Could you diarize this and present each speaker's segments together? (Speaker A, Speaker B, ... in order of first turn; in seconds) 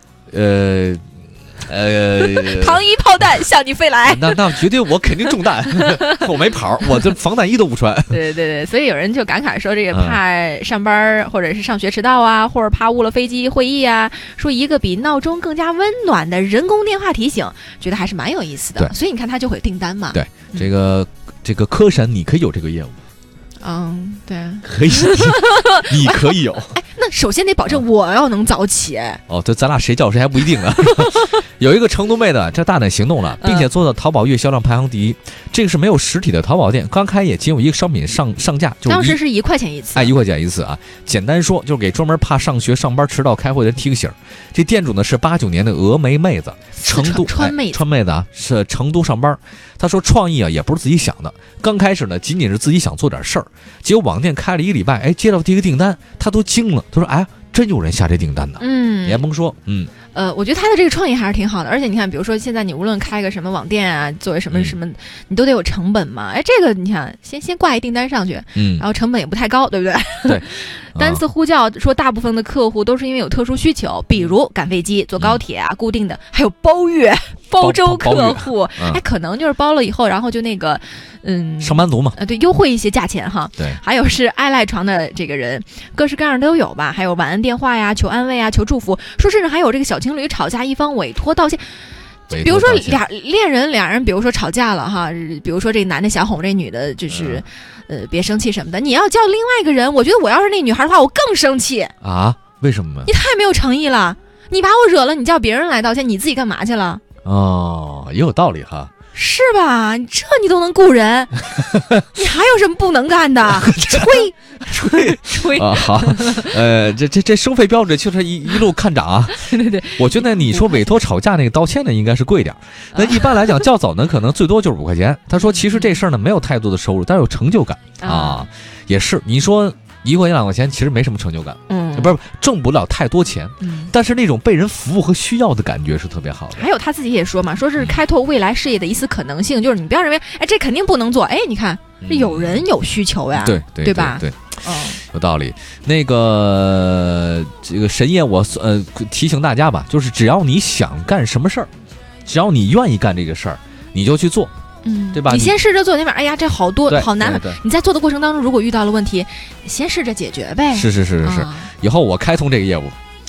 Speaker A: 0.3-1.0, 1.6-2.8, 4.0-8.2, 9.9-10.2, 20.1-23.0, 24.6-26.8, 29.3-39.2, 40.0-59.9, 64.5-64.8, 68.5-68.8, 70.2-71.2, 77.6-79.0, 81.6-82.2, 92.3-93.0, 97.1-97.4, 102.0-103.1, 107.2-108.9, 111.7-112.0, 113.7-136.6, 142.0-142.7, 143.3-151.7, 152.3-154.5, 155.1-155.6, 156.9-157.6, 160.7-163.0
Speaker B: 2.1-7.0, 8.1-20.7, 23.6-29.2, 30.8-31.3, 33.4-33.7, 38.9-40.1, 46.8-47.8, 58.6-59.2, 60.1-101.9, 103.0-107.0, 109.1-111.3, 112.1-116.6, 119.3-120.9, 122.9-123.6, 125.3-126.0, 128.0-128.5, 131.7-132.1, 133.6-133.9, 136.5-145.0, 154.8-161.7